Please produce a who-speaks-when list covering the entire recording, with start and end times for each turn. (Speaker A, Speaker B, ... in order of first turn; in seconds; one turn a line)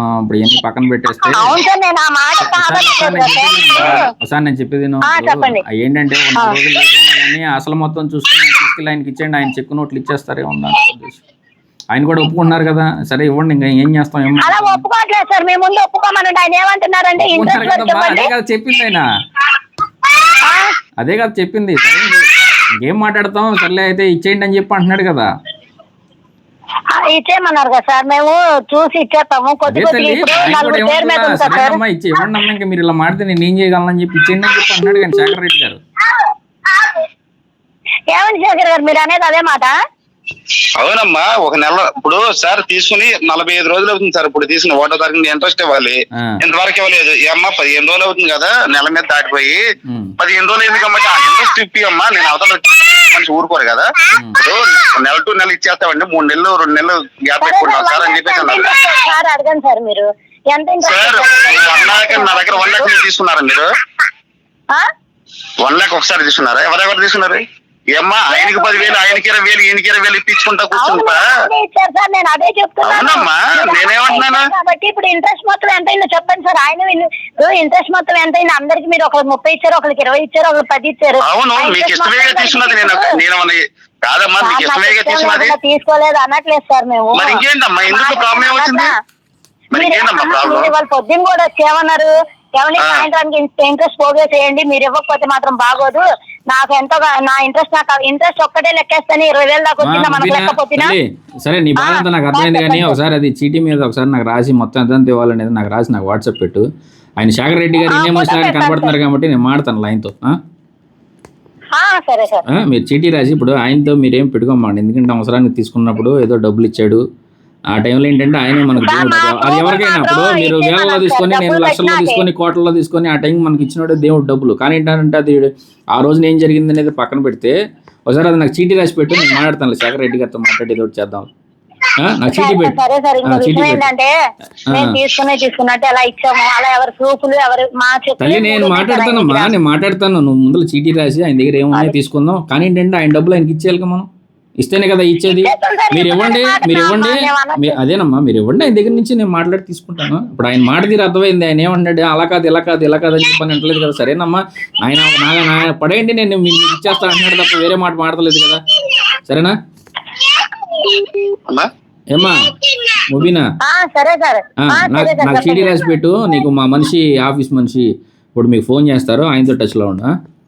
Speaker A: 0.3-1.6
Speaker B: 1.3-4.1
Speaker A: 2.4-11.2
Speaker B: 5.0-5.6
Speaker A: 11.9-14.8
Speaker B: 14.4-18.3
Speaker A: 17.2-19.1
Speaker B: 20.3-20.8
Speaker A: 21.0-25.3
Speaker B: 26.9-31.8
Speaker A: 29.7-35.8
Speaker B: 36.1-37.0
Speaker B: 38.1-39.8
Speaker C: 40.8-49.6
Speaker A: 49.9-50.1
Speaker C: 50.2-58.6
Speaker A: 54.1-54.4
Speaker B: 57.4-62.9
Speaker C: 60.8-63.7
Speaker C: 65.6-67.4
Speaker C: 68.0-71.2
Speaker B: 68.3-69.2
Speaker B: 70.7-83.2
Speaker C: 72.8-74.5
Speaker C: 81.2-85.6
Speaker B: 84.4-88.9
Speaker C: 87.2-88.9
Speaker C: 89.7-90.7
Speaker B: 89.8-101.0
Speaker C: 92.8-93.0
Speaker A: 99.8-106.7
Speaker B: 101.8-103.0
Speaker A: 107.2-110.4
Speaker B: 107.9-108.9
Speaker B: 111.8-112.5
Speaker A: 112.6-117.0
Speaker A: 117.7-127.5
Speaker B: 118.8-122.3
Speaker A: 128.1-131.3
Speaker A: 132.0-133.9
Speaker B: 132.3-134.1
Speaker B: 134.7-139.5
Speaker A: 138.2-144.1
Speaker A: 144.6-158.6
Speaker B: 145.3-147.8
Speaker A: 159.3-159.6
Speaker B: 160.2-161.2
Speaker A: 162.1-162.5
Speaker A: 163.1-163.5
Speaker B: 163.6-165.8
Speaker A: 164.6-170.1